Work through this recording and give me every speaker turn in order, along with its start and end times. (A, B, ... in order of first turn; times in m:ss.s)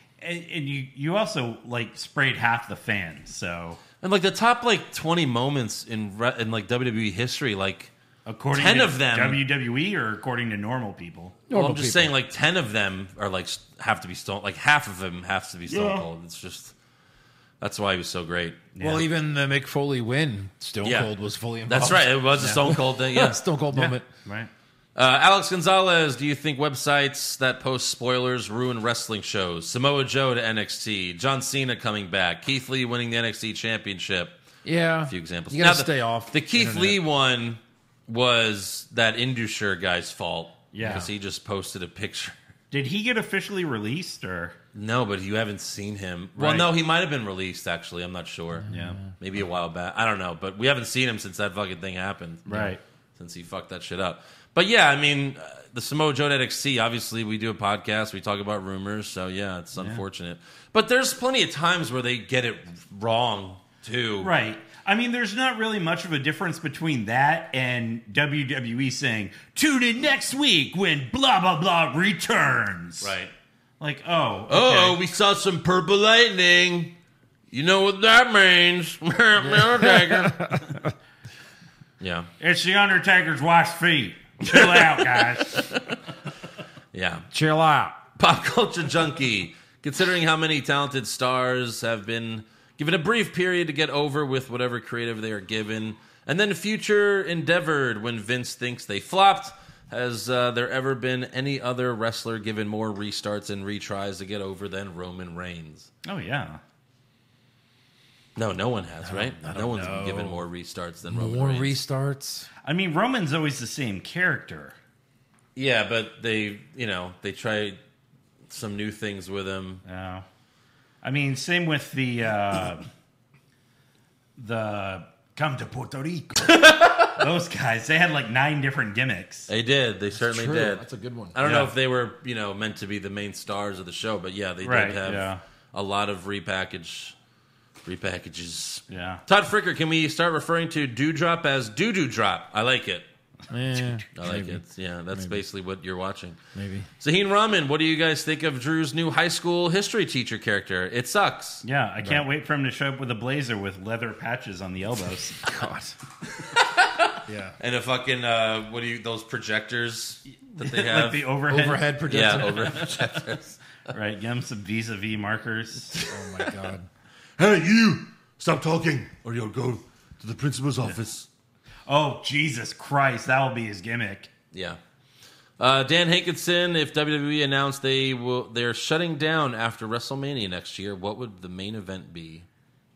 0:00.2-0:03.8 A
0:04.0-0:07.9 B
0:08.3-0:11.4 A
0:08.5-0:09.4 B
0:11.5-0:12.1 C
0:11.5-0:16.7 B
0:15.7-0:16.0 A
0:17.6-0:18.6 B
0:18.8-0:19.0 A
0:18.8-0:24.1 C
0:20.8-0:21.1 B
0:21.7-0:23.4 B
0:22.4-0:22.6 A
0:23.7-0:24.5 A
0:25.0-0:34.4 B
0:34.6-0:37.0 C
0:35.0-0:42.4 B
0:40.7-0:41.0 A
0:40.8-0:41.1 C
0:42.7-0:44.6 A
0:44.7-0:48.7 B
0:46.4-0:46.7 A
0:48.7-0:49.1 C
0:48.7-0:49.0 A
0:49.2-1:04.3 B
0:52.5-0:52.8 A
0:59.8-1:00.0 A
1:04.2-1:13.1 A
1:13.0-1:13.3 B
1:13.8-1:15.0 A
1:14.5-1:16.9 B
1:17.5-1:20.6 B
1:19.4-1:20.9 C
1:22.0-1:22.3 B
1:22.4-1:25.6 A
1:24.5-1:26.0 B
1:26.9-1:27.2 B
1:27.3-1:28.0 C
1:28.2-1:45.9 B
1:46.0-1:46.6 A
1:48.4-1:51.8 B
1:49.0-1:50.4 C
1:51.1-1:52.5 C
1:52.6-1:54.8 A
1:55.6-1:57.8 B
1:58.5-1:59.8 B
1:59.9-2:00.2 A
2:01.0-2:02.9 A
2:04.4-2:06.5 A
2:06.4-2:07.2 B
2:07.2-2:09.5 A
2:09.5-2:17.2 B
2:10.2-2:11.4 C
2:11.4-2:11.7 A
2:14.6-2:15.4 A
2:17.8-2:23.1 B
2:18.9-2:19.2 A
2:23.5-2:25.4 C
2:24.2-2:26.4 B
2:26.6-2:26.9 C
2:27.0-2:31.6 B
2:31.6-2:35.4 A
2:35.4-2:36.0 C
2:36.8-2:41.3 B
2:37.3-2:37.6 C
2:40.3-2:42.1 A
2:41.5-2:42.8 C
2:42.1-2:43.6 B
2:43.9-2:46.0 A
2:46.1-2:46.9 C
2:47.4-2:51.0 D
2:50.8-2:51.3 B
2:51.9-2:54.3 A
2:54.5-2:54.8 B
2:55.6-3:02.5 B